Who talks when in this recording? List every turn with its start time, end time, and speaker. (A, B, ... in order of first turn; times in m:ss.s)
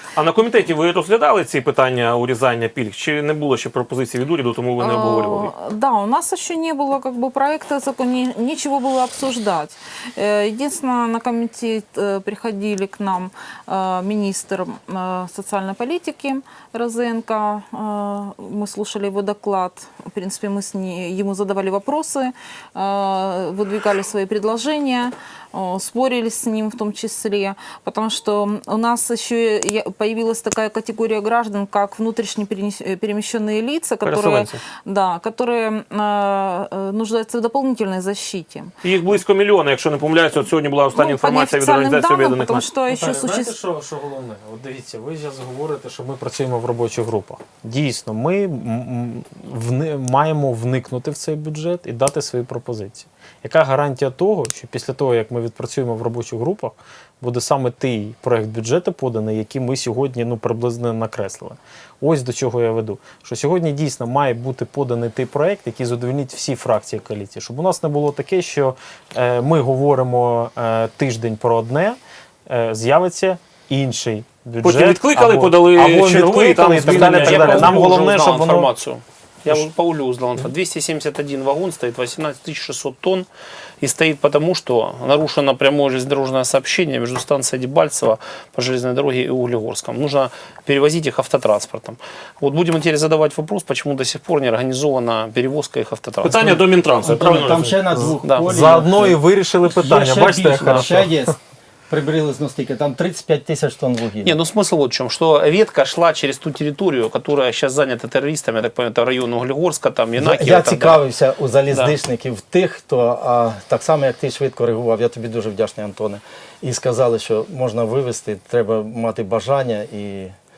0:00.2-0:05.5 A
0:04.8-0:38.7 B
0:34.0-0:34.6 A
0:38.8-0:42.7 A
0:40.9-0:43.6 B
0:42.9-1:18.7 C
1:14.6-1:17.8 A
1:16.8-1:23.3 D
1:23.8-1:36.6 D
1:36.2-1:37.7 A
1:37.0-1:41.4 E
1:37.9-1:41.3 C
1:38.2-1:38.5 D
1:40.6-1:40.8 D
1:41.9-1:44.3 E
1:44.2-1:51.0 D
1:50.2-2:00.3 E
1:51.7-1:52.0 D